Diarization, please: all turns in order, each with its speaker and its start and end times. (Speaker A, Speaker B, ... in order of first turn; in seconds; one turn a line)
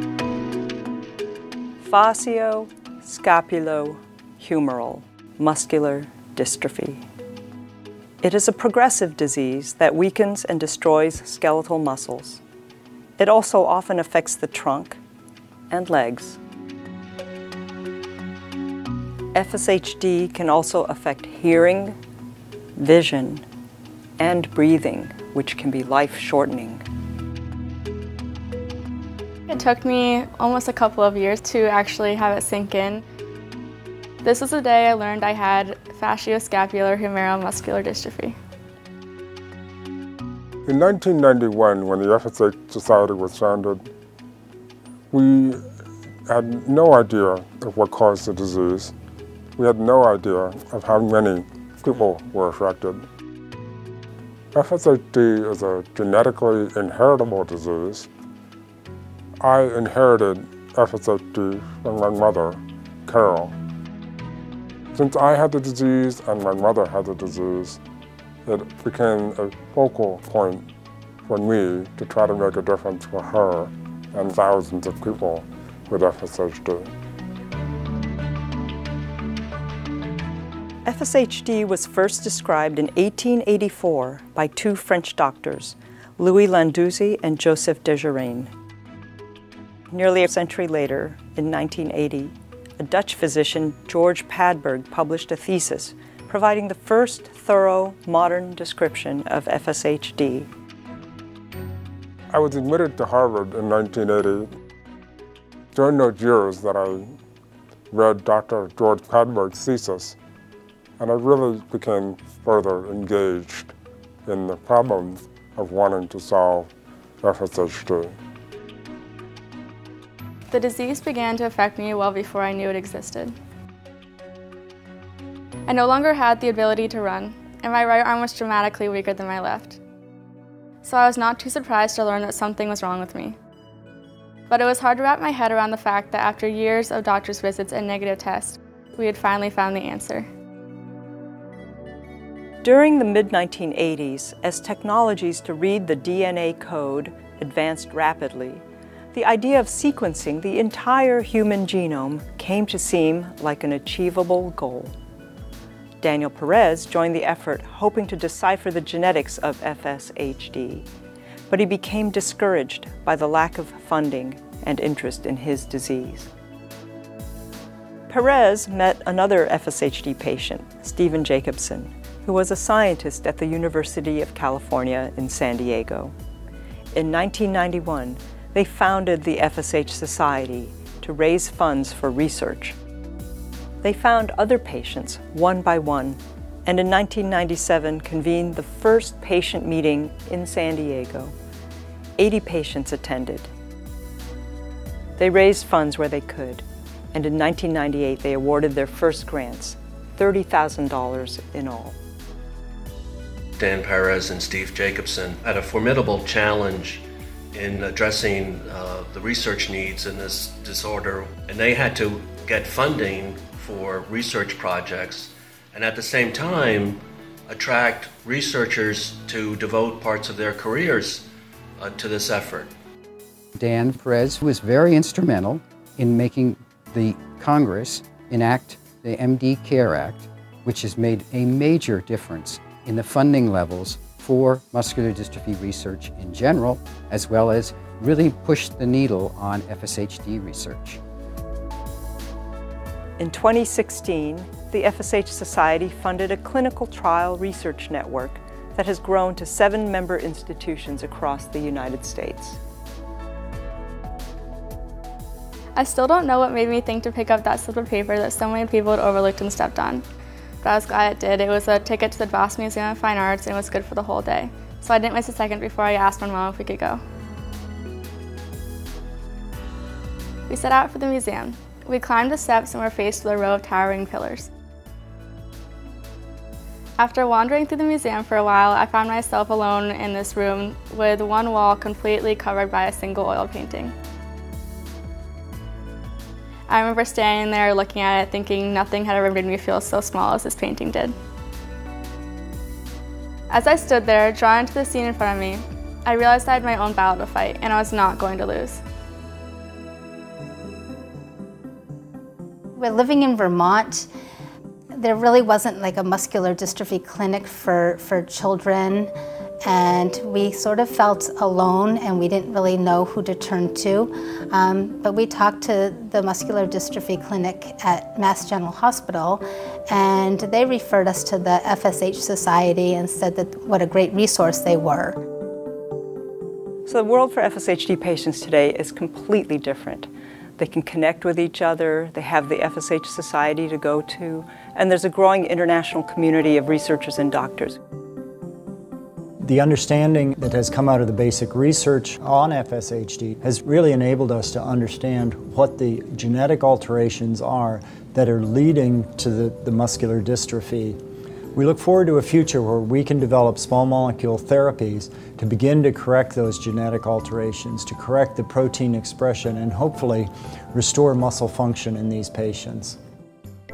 Speaker A: 1.8-7.0
Speaker A: 8.2-12.4
Speaker A: 13.2-15.0
Speaker A: 15.7-16.4
Speaker A: 19.3-22.0
Speaker A: 22.8-23.4
Speaker A: 24.2-26.8
Speaker B: 29.5-33.0
Speaker B: 34.2-38.4
Speaker C: 40.6-43.9
Speaker C: 45.1-45.6
Speaker C: 46.3-48.9
Speaker C: 49.6-53.0
Speaker C: 54.5-58.1
Speaker C: 59.4-63.5
Speaker C: 64.9-67.8
Speaker C: 68.5-70.7
Speaker C: 71.2-76.9
Speaker A: 80.8-88.5
Speaker A: 89.9-100.5
Speaker C: 102.3-104.5
Speaker C: 105.7-107.1
Speaker C: 107.9-110.2
Speaker C: 111.0-113.7
Speaker C: 114.2-116.7
Speaker C: 117.2-118.1
Speaker B: 120.5-123.3
Speaker B: 125.7-129.8
Speaker B: 130.8-133.4
Speaker B: 134.5-140.3
Speaker A: 142.6-148.6
Speaker A: 149.1-154.9
Speaker A: 156.0-160.8
Speaker A: 161.5-166.3
Speaker A: 168.1-176.1
Speaker A: 176.9-182.8
Speaker A: 183.8-191.3
Speaker A: 192.2-193.5
Speaker A: 195.2-201.9
Speaker D: 203.6-221.3
Speaker D: 221.8-222.7
Speaker E: 223.6-241.0
Speaker A: 243.2-252.6
Speaker B: 255.8-260.0
Speaker B: 260.6-267.0
Speaker B: 270.5-274.5
Speaker B: 277.0-283.9
Speaker B: 286.7-291.1
Speaker B: 293.5-298.8
Speaker F: 302.8-304.1
Speaker F: 304.9-309.1
Speaker F: 309.6-325.2
Speaker A: 326.9-337.8
Speaker G: 339.4-351.0
Speaker G: 351.5-363.0